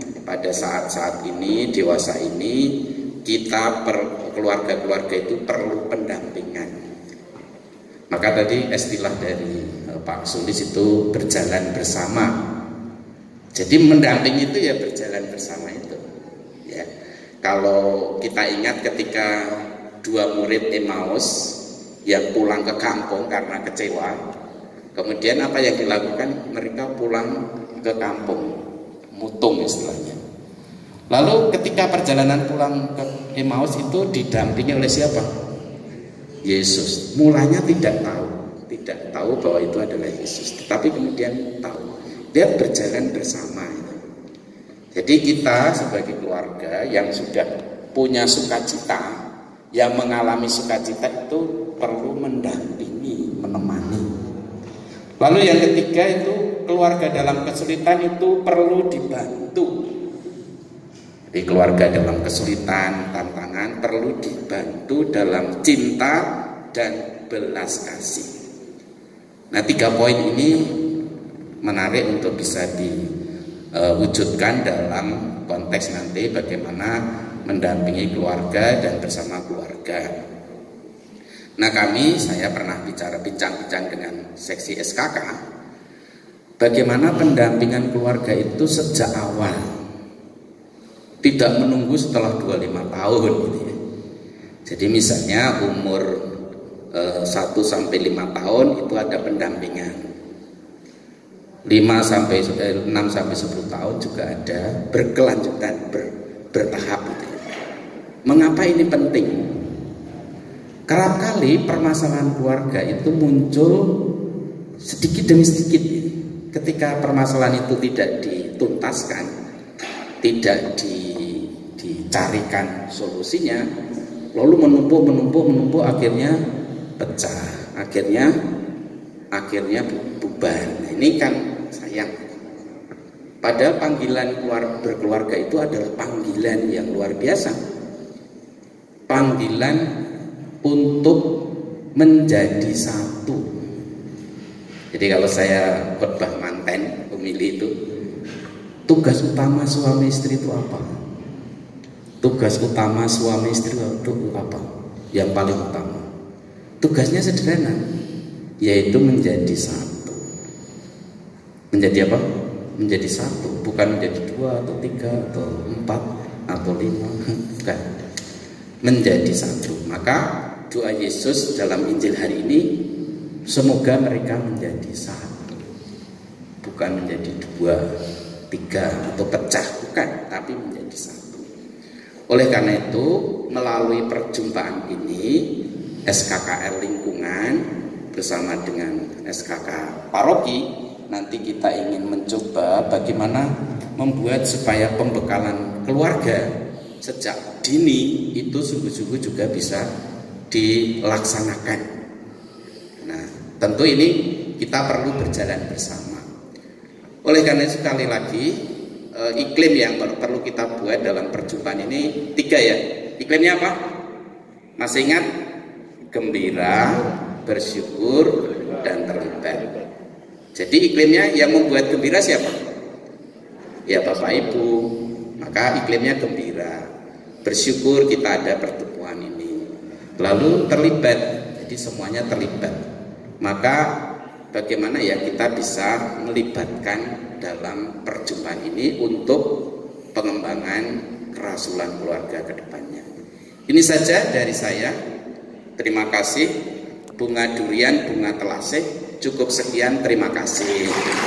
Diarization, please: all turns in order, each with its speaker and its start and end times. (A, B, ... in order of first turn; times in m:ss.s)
0:00.2-0:06.7 A
0:08.1-0:12.3 A
0:13.5-0:16.0 A
0:17.4-0:21.5 A
0:22.0-0:24.2 A
0:24.9-0:28.5 A
0:29.1-0:30.2 A
0:31.1-0:35.3 A
0:36.4-0:44.0 A
0:44.9-0:49.1 A
0:49.8-0:54.0 A
0:55.2-0:59.8 A
1:01.3-1:08.3 A
1:09.5-1:10.7 A
1:11.6-1:13.1 A
1:13.7-1:20.1 A
1:21.6-1:25.4 A
1:26.6-1:29.6 A
1:31.2-1:33.7 A
1:34.7-1:36.2 A
1:36.9-1:40.0 A
1:41.7-1:47.4 A
1:48.3-1:49.4 A
1:50.9-1:53.9 A
1:54.8-1:59.3 A
2:00.2-2:03.6 A
2:04.3-2:06.4 A
2:07.0-2:08.3 A
2:09.3-2:12.1 A
2:13.4-2:17.6 A
2:19.1-2:19.8 A
2:20.6-2:21.3 A
2:22.0-2:23.4 A
2:24.9-2:27.7 A
2:28.9-2:30.9 A
2:32.2-2:36.0 A
2:36.8-2:37.8 A
2:38.6-2:40.2 A
2:41.7-2:42.2 A
2:42.8-2:47.8 A
2:48.8-2:52.7 A
2:53.5-2:55.6 A
2:56.6-2:57.8 A
2:58.5-3:01.5 A
3:02.3-3:05.5 A
3:06.1-3:16.5 A
3:17.0-3:19.9 A
3:20.5-3:21.9 A
3:23.0-3:26.2 A
3:27.2-3:28.6 A
3:29.1-3:33.8 A
3:34.8-3:35.2 A
3:36.1-3:39.7 A
3:40.5-3:42.6 A
3:43.9-3:46.9 A
3:47.4-3:49.6 A
3:50.2-3:52.8 A
3:53.4-3:53.9 A
3:54.5-3:59.5 A
4:00.1-4:03.0 A
4:03.7-4:04.9 A
4:05.8-4:06.5 A
4:07.2-4:11.0 A